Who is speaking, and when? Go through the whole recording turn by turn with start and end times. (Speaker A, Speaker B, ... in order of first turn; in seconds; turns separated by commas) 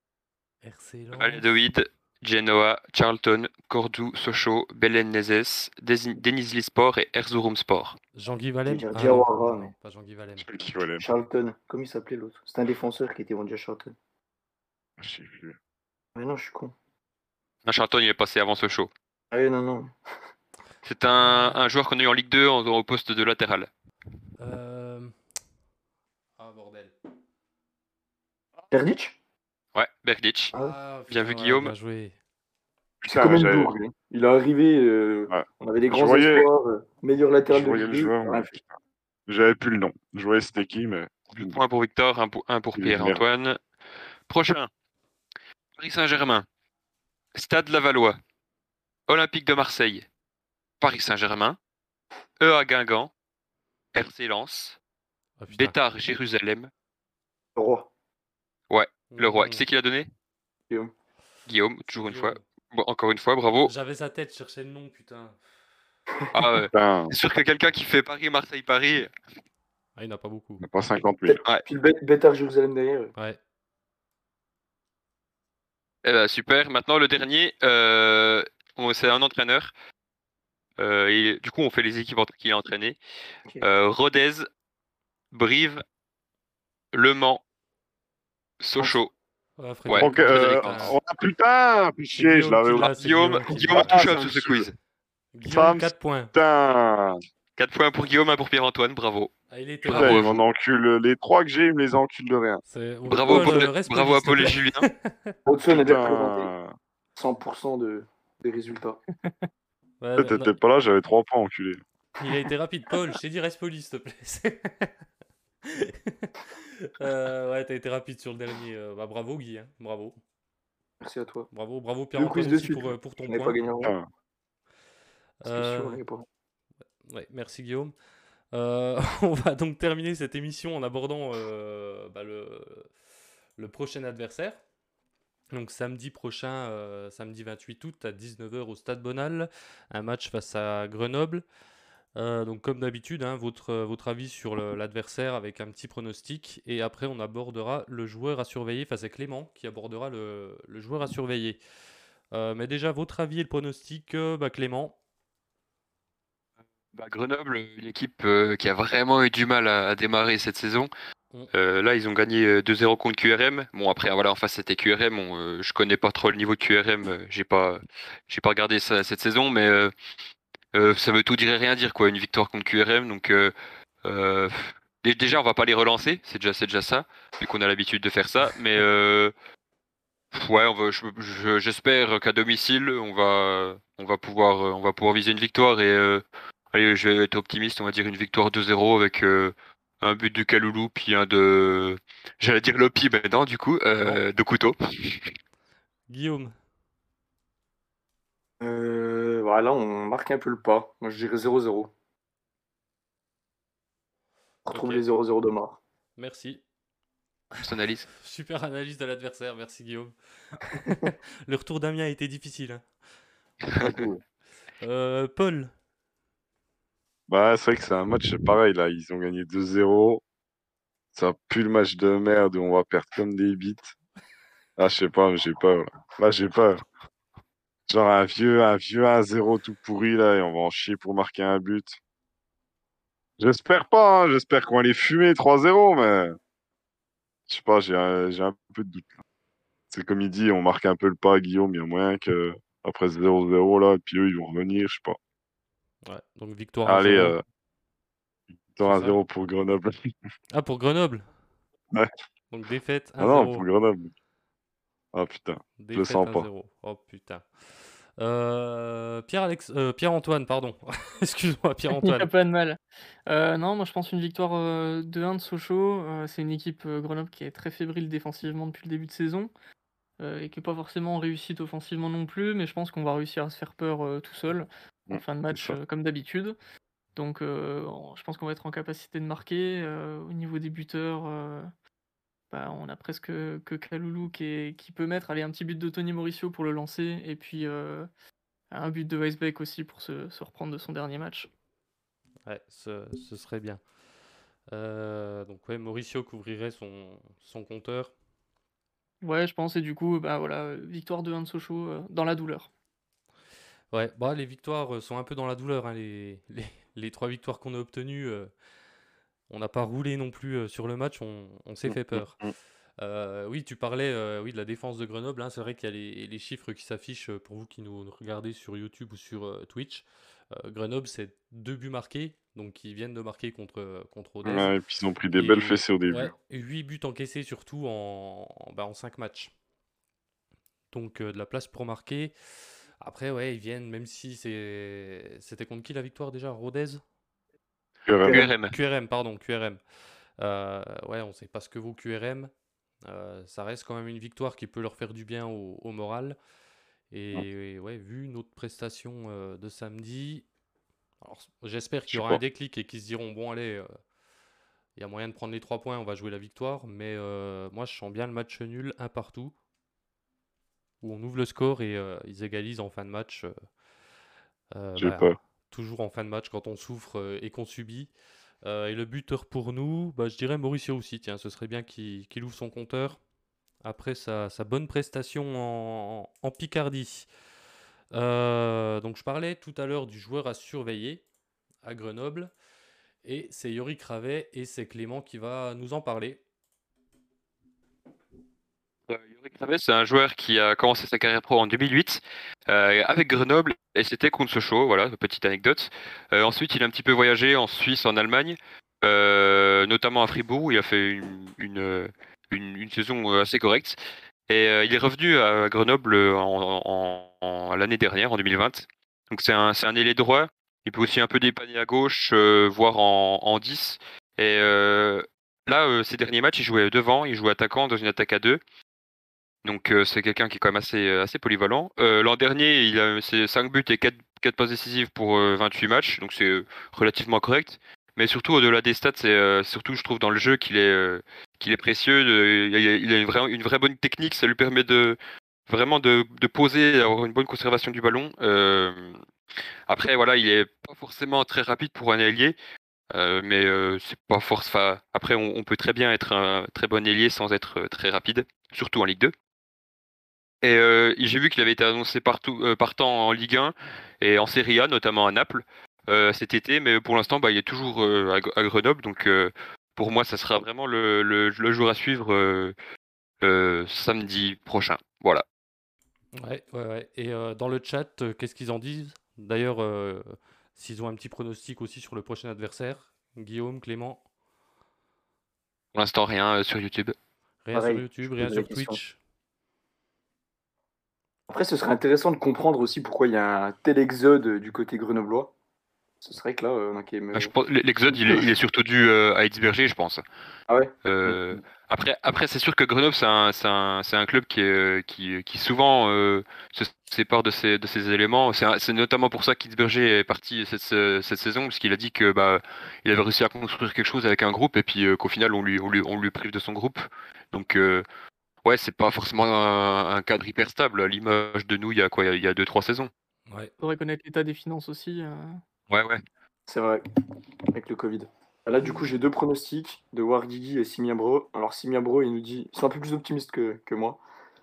Speaker A: 0.6-1.4, Speaker B: 1.1-8.0, Speaker A: 8.2-10.5, Speaker C: 8.7-9.7, Speaker D: 10.4-11.1, Speaker C: 11.0-13.9, Speaker D: 15.0-15.6, Speaker C: 16.1-16.7, Speaker B: 17.6-18.9, Speaker C: 19.3-19.9, Speaker B: 20.8-23.7, Speaker A: 21.2-21.6, Speaker A: 24.4-25.2, Speaker A: 26.4-26.9, Speaker C: 28.7-29.1, Speaker B: 29.8-30.5, Speaker A: 30.5-32.2, Speaker B: 31.1-31.7, Speaker D: 33.0-33.7, Speaker C: 33.1-38.5, Speaker D: 35.3-36.5, Speaker D: 37.5-38.8, Speaker D: 39.3-41.6, Speaker B: 41.3-43.6, Speaker D: 42.8-43.2, Speaker B: 44.3-44.7, Speaker B: 45.8-46.5, Speaker B: 47.4-48.2, Speaker B: 49.1-50.1, Speaker B: 50.8-51.6, Speaker B: 52.4-53.1, Speaker B: 53.9-54.8, Speaker A: 55.4-55.8, Speaker B: 55.5-56.7, Speaker C: 57.6-57.9, Speaker B: 58.7-60.1, Speaker A: 59.1-59.6, Speaker B: 61.5-63.7, Speaker A: 61.9-62.4, Speaker A: 63.6-65.4, Speaker B: 66.3-69.1, Speaker D: 66.7-67.1, Speaker A: 70.0-70.7, Speaker D: 70.6-71.4, Speaker C: 71.2-73.1, Speaker B: 76.0-79.7, Speaker B: 80.8-83.0, Speaker B: 83.6-84.5, Speaker B: 85.3-85.8, Speaker B: 86.9-87.4, Speaker B: 88.6-89.1, Speaker A: 89.6-91.0, Speaker B: 89.9-91.0, Speaker D: 90.0-92.9, Speaker A: 92.1-94.0, Speaker B: 92.8-94.7, Speaker D: 93.5-94.7, Speaker A: 95.3-96.3, Speaker D: 95.5-97.2, Speaker B: 97.6-99.3, Speaker A: 99.5-100.3, Speaker B: 99.8-100.4, Speaker D: 99.9-102.6, Speaker A: 102.7-105.4, Speaker B: 103.1-104.9, Speaker C: 105.5-106.5, Speaker D: 105.7-106.7, Speaker C: 107.2-109.0, Speaker A: 110.0-110.5, Speaker D: 110.2-111.8, Speaker A: 112.2-114.9, Speaker A: 115.7-120.2, Speaker C: 121.0-121.5, Speaker A: 121.5-123.6, Speaker C: 122.2-123.9, Speaker D: 123.8-124.1, Speaker A: 125.4-126.0, Speaker C: 125.5-126.2, Speaker A: 127.1-127.9, Speaker A: 128.5-132.9, Speaker A: 133.6-134.6, Speaker A: 135.5-141.4, Speaker A: 142.2-151.6, Speaker A: 152.3-155.0, Speaker B: 156.9-160.9, Speaker B: 161.5-169.9, Speaker B: 170.7-179.3, Speaker B: 180.3-195.2, Speaker A: 196.1-196.5, Speaker C: 198.6-201.9, Speaker C: 204.7-205.8, Speaker A: 204.7-205.0, Speaker A: 206.2-206.6, Speaker B: 207.6-208.1, Speaker A: 208.1-212.8, Speaker C: 213.8-214.2, Speaker A: 214.8-215.7, Speaker D: 217.3-220.2, Speaker D: 221.1-223.9, Speaker D: 224.8-226.8, Speaker D: 227.9-232.0, Speaker D: 233.4-236.4, Speaker D: 237.5-239.2, Speaker D: 239.9-245.2, Speaker A: 246.1-247.4, Speaker D: 246.8-247.4, Speaker D: 248.7-250.1, Speaker A: 248.8-249.2, Speaker A: 250.5-251.3, Speaker A: 252.5-253.7, Speaker D: 253.2-254.1, Speaker D: 255.1-256.5, Speaker A: 255.8-257.5, Speaker A: 258.2-262.3, Speaker E: 261.9-269.5, Speaker E: 270.2-276.6, Speaker D: 275.1-275.8, Speaker E: 277.2-281.7, Speaker E: 282.5-288.1, Speaker E: 288.7-291.5, Speaker A: 292.5-293.8, Speaker A: 294.7-298.1, Speaker E: 299.2-302.7, Speaker A: 303.9-308.5, Speaker A: 309.5-312.4, Speaker D: 311.9-312.5, Speaker A: 313.0-324.7, Speaker D: 324.4-326.3, Speaker A: 325.4-329.5, Speaker A: 330.9-332.3, Speaker A: 333.0-337.0, Speaker D: 338.1-338.4, Speaker B: 338.2-338.7, Speaker A: 338.5-339.8, Speaker A: 340.4-342.5, Speaker A: 343.1-346.4, Speaker A: 347.1-350.5, Speaker A: 351.2-353.9, Speaker D: 352.1-352.4, Speaker A: 355.0-359.5, Speaker A: 361.0-363.5, Speaker A: 364.7-368.1, Speaker D: 365.0-365.4, Speaker A: 368.6-373.2, Speaker A: 373.8-377.3, Speaker A: 378.1-381.2, Speaker A: 381.8-382.5, Speaker A: 383.2-386.4, Speaker B: 389.1-404.0, Speaker B: 404.5-418.6, Speaker B: 419.6-439.2, Speaker B: 439.9-442.6, Speaker B: 443.1-449.3, Speaker B: 450.6-462.8, Speaker B: 463.4-465.4, Speaker A: 466.4-474.2, Speaker B: 475.9-477.1, Speaker A: 477.6-479.2, Speaker C: 477.7-479.0, Speaker C: 481.5-485.5, Speaker C: 486.2-487.5, Speaker B: 487.3-490.2, Speaker C: 488.1-488.5, Speaker C: 490.7-491.6, Speaker B: 491.1-508.1, Speaker B: 508.6-513.1, Speaker E: 513.8-515.6, Speaker B: 515.9-516.2, Speaker C: 516.7-517.0, Speaker C: 517.7-524.2